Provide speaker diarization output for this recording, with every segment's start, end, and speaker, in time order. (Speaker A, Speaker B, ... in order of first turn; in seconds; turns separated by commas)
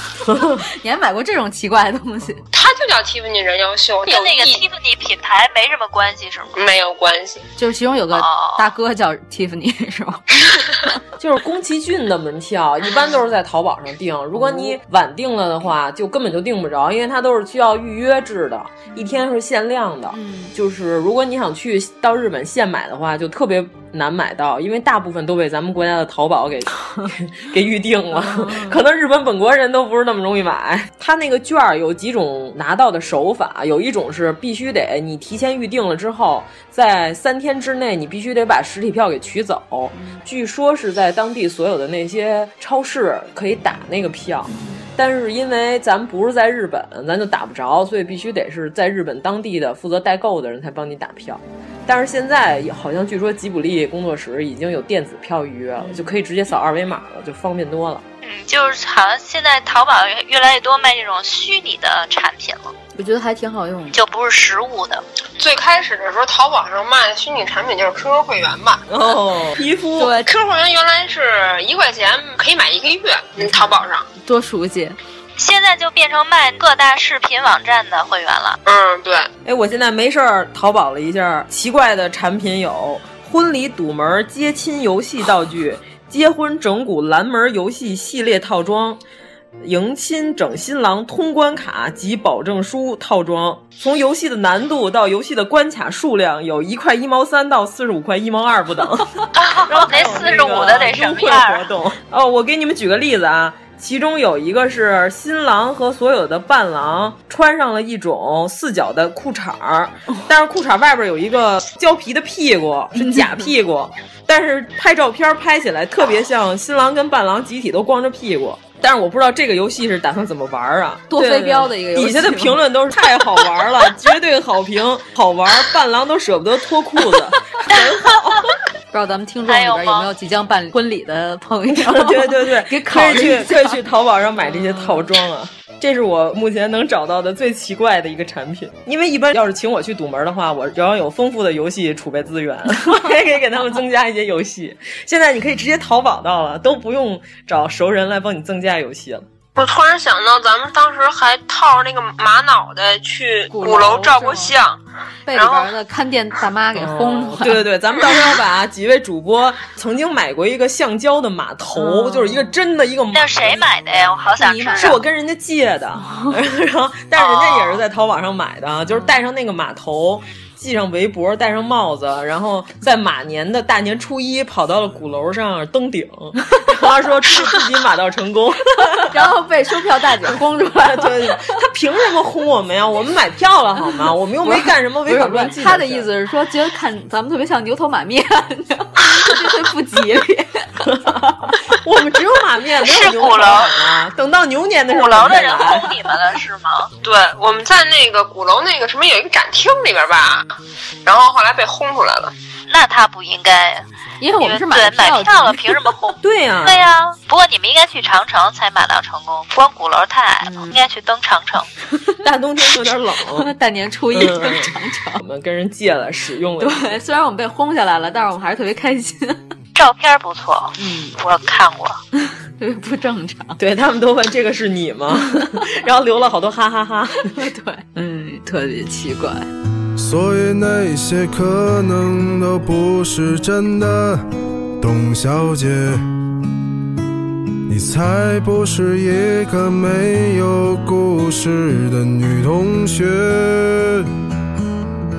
Speaker A: 0.3-0.6, Speaker B: 0.8-2.4, Speaker C: 2.5-4.6, Speaker D: 4.1-6.5, Speaker C: 6.5-7.4, Speaker B: 7.6-10.9, Speaker D: 8.1-8.6, Speaker A: 11.2-58.0, Speaker B: 14.4-14.8, Speaker B: 20.1-20.5, Speaker B: 28.2-28.8, Speaker B: 39.9-40.2, Speaker D: 58.2-62.7, Speaker B: 63.0-64.0, Speaker D: 63.9-65.0, Speaker C: 65.4-68.8, Speaker A: 68.9-70.2, Speaker B: 70.0-70.3, Speaker C: 70.2-74.1, Speaker B: 74.2-75.0, Speaker D: 75.4-78.6, Speaker C: 78.7-79.3, Speaker A: 79.4-89.0, Speaker A: 89.6-128.5, Speaker D: 99.4-101.7, Speaker B: 113.0-113.4, Speaker B: 121.1-122.6, Speaker B: 128.9-133.8, Speaker D: 129.5-130.1, Speaker A: 131.7-149.2, Speaker C: 149.6-154.8, Speaker B: 153.5-154.6, Speaker B: 155.2-157.7, Speaker C: 155.3-155.7, Speaker A: 156.8-164.1, Speaker B: 161.8-162.5, Speaker D: 163.1-165.0, Speaker B: 164.4-165.0, Speaker A: 164.8-179.2, Speaker D: 167.2-167.8, Speaker B: 178.8-181.4, Speaker A: 180.7-186.1, Speaker B: 184.4-191.6, Speaker A: 190.8-195.9, Speaker D: 192.8-193.9, Speaker D: 194.9-196.9, Speaker C: 197.0-200.5, Speaker C: 201.1-202.3, Speaker D: 202.7-203.8, Speaker B: 204.2-205.9, Speaker D: 204.4-211.7, Speaker A: 206.2-206.9, Speaker B: 210.4-210.7, Speaker A: 212.2-213.5, Speaker B: 213.4-215.2, Speaker A: 214.1-217.0, Speaker B: 216.6-219.4, Speaker D: 219.8-222.0, Speaker B: 220.8-221.2, Speaker B: 222.2-223.6, Speaker A: 223.6-227.3, Speaker B: 227.2-229.5, Speaker E: 230.0-234.2, Speaker E: 234.8-236.0, Speaker E: 237.7-244.1